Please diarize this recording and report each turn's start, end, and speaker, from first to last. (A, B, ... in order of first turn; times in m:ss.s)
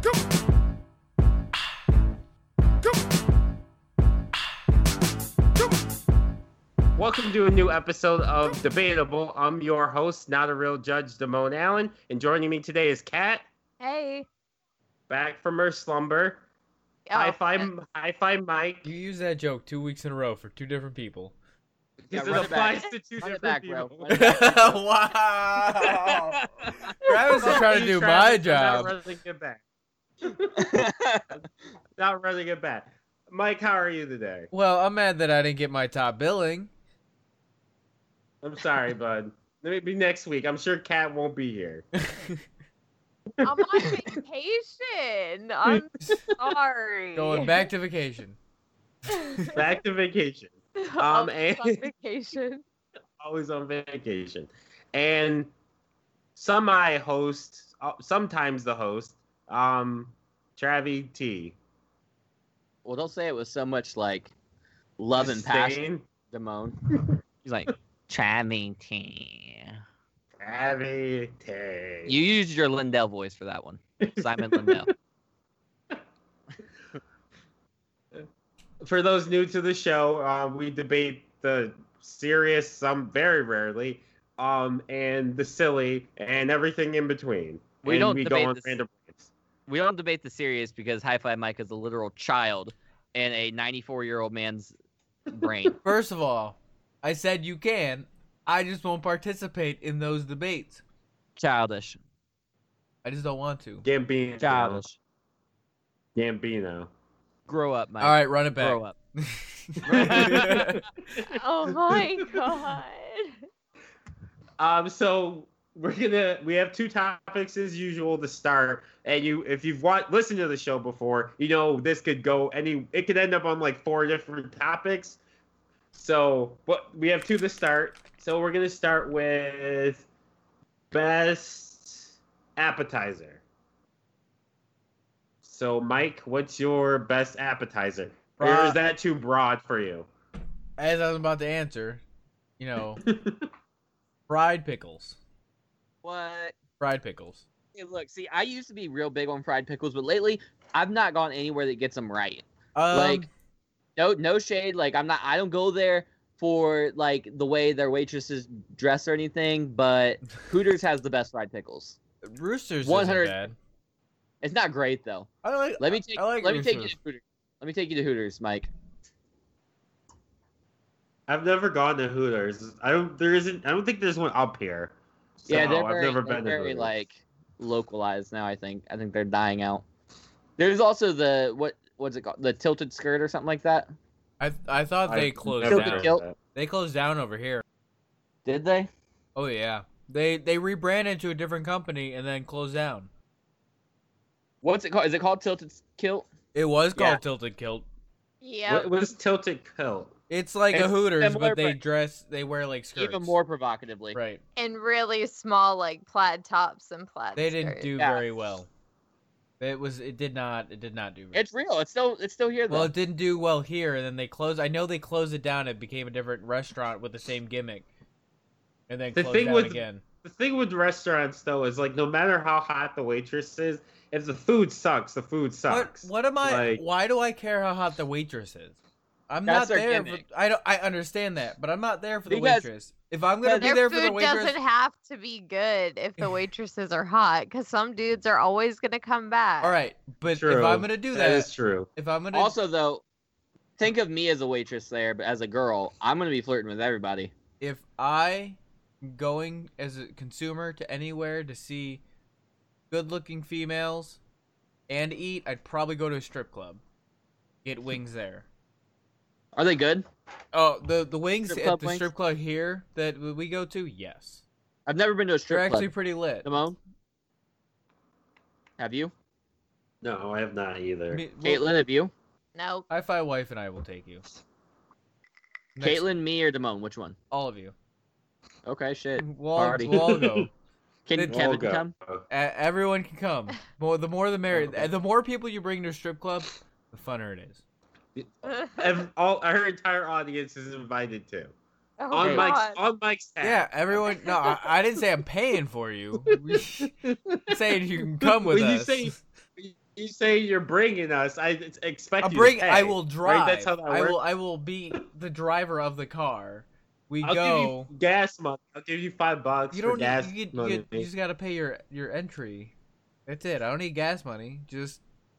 0:07.0-0:13.5 A
0:13.8-0:14.3 B
0:15.1-0:16.4 A
0:17.1-0:17.7 B
0:17.1-0:18.8 A
0:18.8-0:21.4 C
0:22.1-0:24.4 A
0:22.1-0:24.8 D
0:24.1-0:28.9 C
0:25.8-0:26.8 D
0:27.4-0:29.6 A
0:30.2-0:30.8 A
0:30.6-0:31.4 D
0:32.0-0:34.5 A
0:34.5-0:36.7 C
0:38.4-0:41.8 A
0:41.9-0:42.4 C
0:43.3-0:44.0 A
0:43.4-0:47.6 B
0:45.7-0:46.3 A
0:47.1-0:48.4 C
0:49.1-0:49.5 C
0:49.1-0:49.6 B
0:49.5-0:51.9 A
0:50.9-0:52.6 B
0:53.2-0:55.5 A
0:56.4-1:01.6 A
1:02.8-1:04.3 D
1:05.0-1:05.8 D
1:05.2-1:06.1 A
1:06.3-1:06.9 D
1:07.4-1:09.8 D
1:10.4-1:12.2 A
1:12.1-1:14.9 D
1:14.1-1:14.8 A
1:18.8-1:29.3 A
1:27.8-1:28.8 D
1:29.7-1:34.7 D
1:35.3-1:35.8 D
1:35.8-1:40.8 C
1:41.4-1:42.0 D
1:43.0-1:43.9 C
1:43.8-1:44.8 A
1:44.4-1:45.0 D
1:46.2-1:46.9 A
1:47.5-1:49.0 D
1:48.0-1:50.8 C
1:49.8-1:52.4 A
1:49.9-1:50.7 D
1:51.2-1:53.3 B
1:54.6-2:05.2 A
2:05.9-2:10.0 A
2:10.9-2:13.4 A
2:15.4-2:20.1 A
2:18.4-2:18.8 C
2:20.8-2:22.0 C
2:22.6-2:23.0 C
2:23.0-2:23.5 A
2:24.3-2:25.2 C
2:26.0-2:26.6 D
2:26.8-2:27.4 C
2:27.7-2:33.2 D
2:32.7-2:33.3 C
2:34.0-2:42.0 D
2:42.2-2:43.5 C
2:42.8-2:43.4 D
2:44.4-2:48.7 D
2:45.4-2:47.0 C
2:51.3-2:56.9 A
2:55.5-2:59.8 D
3:00.6-3:03.9 D
3:04.4-3:07.6 C
3:05.0-3:06.4 A
3:05.6-3:06.2 D
3:08.4-3:08.9 D
3:09.3-3:13.1 C
3:14.6-3:16.3 D
3:16.5-3:17.9 C
3:18.4-3:18.9 B
3:18.7-3:20.1 A
3:20.3-3:23.3 C
3:20.7-3:21.8 D
3:23.0-3:24.2 D
3:24.1-3:24.4 C
3:24.6-3:27.9 B
3:27.4-3:28.7 C
3:28.0-3:28.2 D
3:29.6-3:31.4 C
3:31.3-3:32.9 D
3:32.7-3:37.9 C
3:38.9-3:40.0 C
3:39.1-3:46.8 A
3:45.7-3:48.8 C
3:49.3-3:54.6 C
3:49.5-3:50.2 D
3:52.3-3:52.7 D
3:53.4-3:53.7 D
3:53.6-3:59.8 B
3:59.6-4:02.6 C
4:00.3-4:01.9 A
4:02.3-4:03.0 D
4:03.8-4:07.3 D
4:07.6-4:12.0 C
4:12.9-4:14.2 C
4:14.9-4:16.8 C
4:17.6-4:18.5 C
4:19.6-4:20.0 D
4:20.5-4:24.4 C
4:21.5-4:22.1 D
4:24.9-4:25.9 D
4:25.5-4:26.5 C
4:26.4-4:26.8 D
4:28.8-4:29.1 D
4:30.0-4:31.2 A
4:31.1-4:31.7 C
4:31.4-4:32.1 D
4:32.6-4:32.9 B
4:32.9-4:34.2 C
4:35.8-4:36.1 C
4:35.8-4:37.2 D
4:37.3-4:37.7 C
4:38.7-4:40.2 D
4:39.2-4:40.5 C
4:39.9-4:40.5 A
4:41.1-4:41.9 D
4:41.2-4:41.5 C
4:41.3-4:42.2 A
4:42.3-4:47.6 C
4:44.5-4:44.9 A
4:48.2-4:51.5 A
4:48.5-4:48.9 B
4:52.0-4:52.8 B
4:52.1-4:54.2 A
4:53.4-4:56.9 C
4:56.5-4:57.5 A
4:57.5-4:59.2 C
4:58.2-5:04.2 A
5:02.2-5:07.9 C
5:07.2-5:11.1 A
5:09.7-5:12.7 C
5:13.3-5:15.0 C